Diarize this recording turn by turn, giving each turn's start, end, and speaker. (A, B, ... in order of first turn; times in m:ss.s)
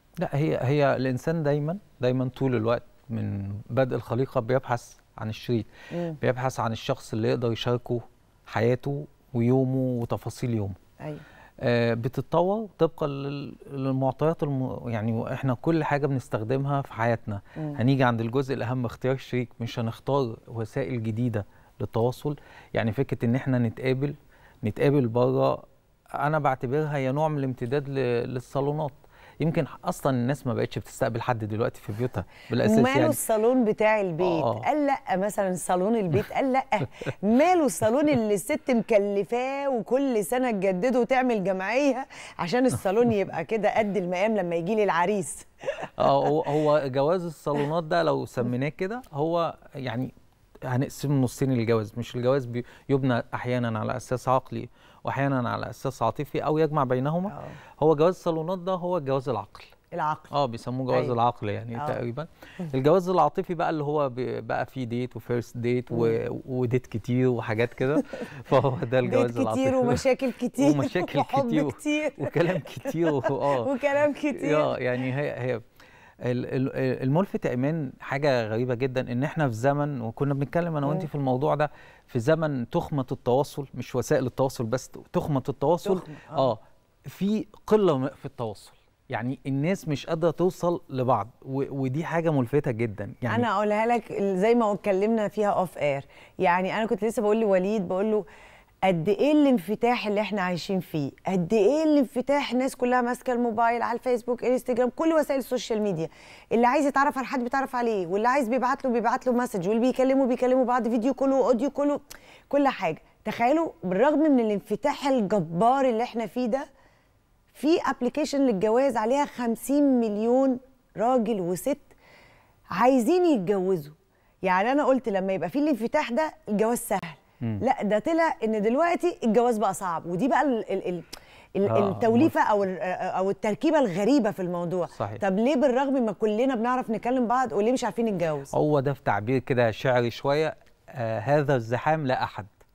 0:00.2-0:10.8 A
0:05.9-0:06.2 B
0:11.6-0:25.6 A
0:26.2-0:33.2 A
0:32.6-0:46.4 B
0:34.2-0:34.6 A
0:46.0-0:50.1 A
0:50.7-0:59.7 A
0:57.3-0:57.6 B
0:59.9-1:00.3 B
1:00.3-1:15.6 A
1:01.7-1:02.0 B
1:05.9-1:06.2 B
1:09.0-1:14.8 B
1:16.2-1:33.5 A
1:25.8-1:26.5 B
1:33.3-1:38.2 B
1:38.8-1:56.7 B
1:57.5-2:01.9 B
2:02.7-2:18.5 B
2:11.7-2:12.3 A
2:15.0-2:15.2 A
2:18.5-2:22.5 A